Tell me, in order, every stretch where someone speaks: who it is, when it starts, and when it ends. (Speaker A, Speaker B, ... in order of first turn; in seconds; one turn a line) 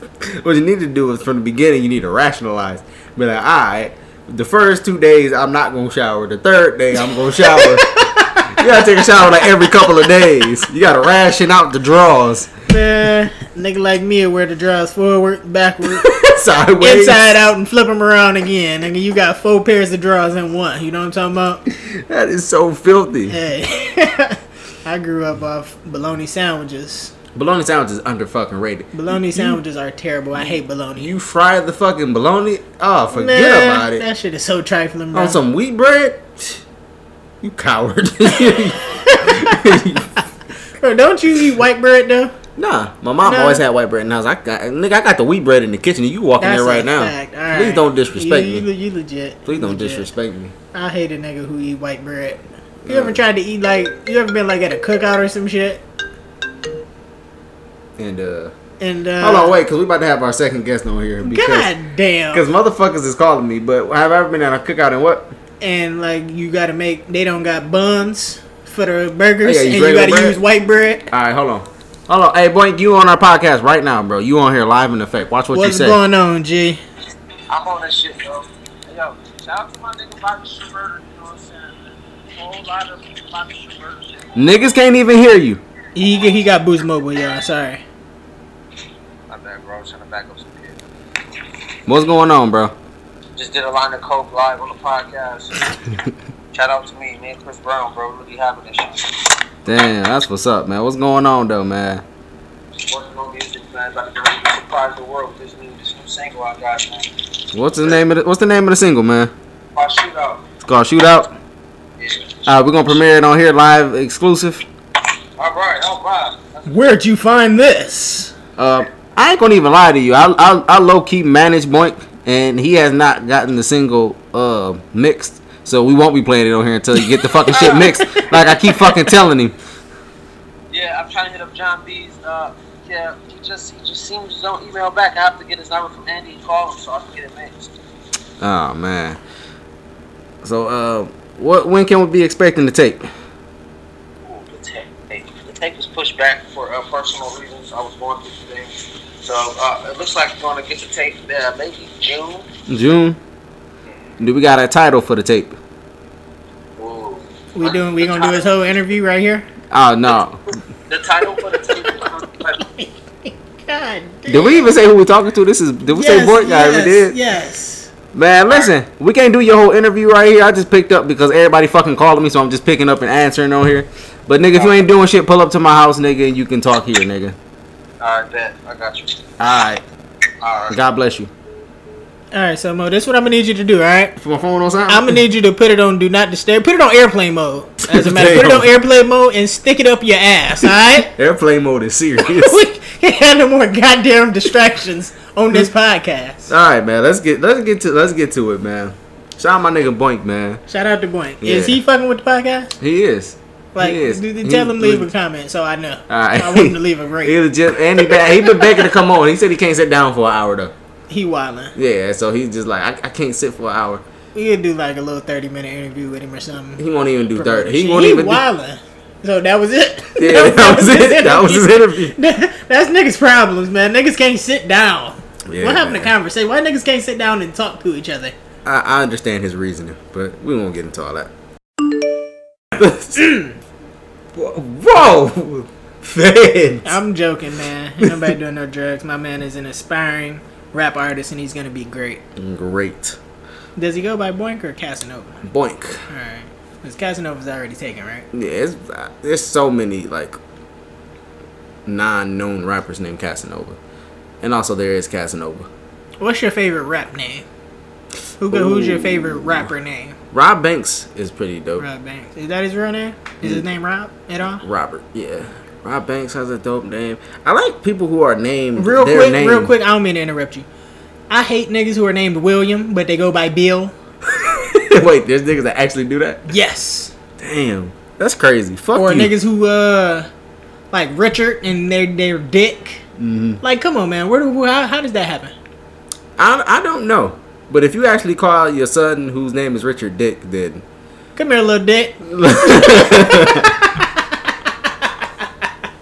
Speaker A: 0.2-7.9
Speaker B: 7.1-10.1
Speaker A: 8.4-12.5
Speaker B: 12.7-16.1
Speaker A: 15.9-17.4
Speaker B: 16.8-21.6
Speaker A: 21.7-23.4
Speaker B: 23.3-27.1
Speaker A: 27.3-29.6
Speaker B: 28.9-31.1
Speaker A: 30.3-34.0
Speaker B: 33.1-35.4
Speaker A: 35.1-36.6
Speaker A: 37.4-40.1
Speaker B: 38.8-39.6
Speaker B: 40.8-42.3
Speaker A: 42.5-48.7
Speaker B: 43.2-43.6
Speaker B: 46.4-50.1
Speaker A: 49.5-50.5
Speaker B: 50.7-55.8
Speaker A: 52.8-53.2
Speaker A: 58.0-58.5
Speaker B: 58.8-59.6
Speaker A: 59.2-61.7
Speaker B: 61.2-62.5
Speaker A: 62.3-65.3
Speaker B: 65.6-71.1
Speaker A: 69.4-70.4
Speaker A: 71.1-76.0
Speaker B: 75.5-76.8
Speaker C: 77.5-84.3
Speaker A: 84.3-85.6
Speaker B: 85.9-87.8
Speaker C: 89.3-90.8
Speaker A: 91.9-92.7
Speaker C: 93.3-95.7
Speaker C: 96.5-99.1
Speaker A: 99.6-102.0
Speaker C: 102.8-107.1
Speaker A: 107.5-109.3
Speaker C: 109.7-110.4
Speaker A: 110.6-111.3
Speaker C: 112.0-112.4
Speaker A: 112.5-114.6
Speaker C: 115.4-116.7
Speaker B: 116.7-118.3
Speaker A: 118.6-129.6
Speaker B: 127.0-128.9
Speaker C: 130.7-137.7
Speaker A: 138.4-139.2
Speaker A: 140.4-143.1
Speaker C: 144.2-152.5
Speaker A: 152.7-153.2
Speaker A: 154.2-155.6
Speaker C: 156.8-158.5
Speaker B: 157.5-159.5
Speaker A: 159.7-160.4
Speaker C: 160.9-162.6
Speaker B: 161.5-164.7
Speaker A: 164.3-167.2
Speaker B: 165.9-167.9
Speaker A: 168.1-177.3
Speaker C: 168.4-168.7
Speaker C: 174.5-174.8
Speaker C: 178.0-179.3
Speaker A: 179.4-179.8
Speaker C: 180.4-180.8
Speaker A: 180.7-181.3
Speaker B: 182.3-184.2
Speaker A: 184.2-185.2
Speaker B: 184.9-191.1
Speaker A: 187.8-188.7
Speaker A: 190.6-192.6
Speaker B: 192.2-196.5
Speaker A: 196.5-200.6
Speaker B: 200.7-202.7
Speaker A: 201.4-201.8
Speaker A: 202.8-205.1
Speaker B: 203.7-207.4
Speaker A: 206.1-210.7
Speaker B: 208.0-208.8
Speaker B: 211.1-211.7
Speaker A: 211.7-214.0
Speaker B: 214.3-216.8
Speaker A: 216.8-218.4
Speaker B: 217.3-228.3
Speaker A: 220.1-222.1
Speaker A: 225.5-226.1
Speaker A: 228.6-231.3
Speaker A: 232.7-233.2
Speaker B: 233.2-233.5
Speaker A: 234.3-237.0
Speaker B: 236.8-242.2
Speaker A: 238.0-238.3
Speaker A: 242.3-243.2
Speaker B: 243.8-245.4
Speaker A: 245.4-246.0
Speaker B: 246.1-248.2
Speaker A: 248.3-250.4
Speaker A: 251.8-253.8
Speaker A: 254.4-255.7
Speaker B: 256.2-257.4
Speaker B: 258.4-260.2
Speaker A: 258.5-259.7
Speaker A: 260.3-261.9
Speaker B: 261.8-264.6
Speaker A: 264.6-269.7
Speaker B: 268.8-270.7
Speaker B: 271.3-273.9
Speaker A: 274.3-276.4
Speaker B: 276.5-277.1
Speaker A: 277.4-279.3
Speaker B: 278.9-280.3
Speaker B: 280.9-283.0
Speaker A: 283.2-283.6
Speaker B: 283.6-285.5
Speaker A: 286.4-290.8
Speaker B: 291.4-295.5
Speaker A: 292.2-293.8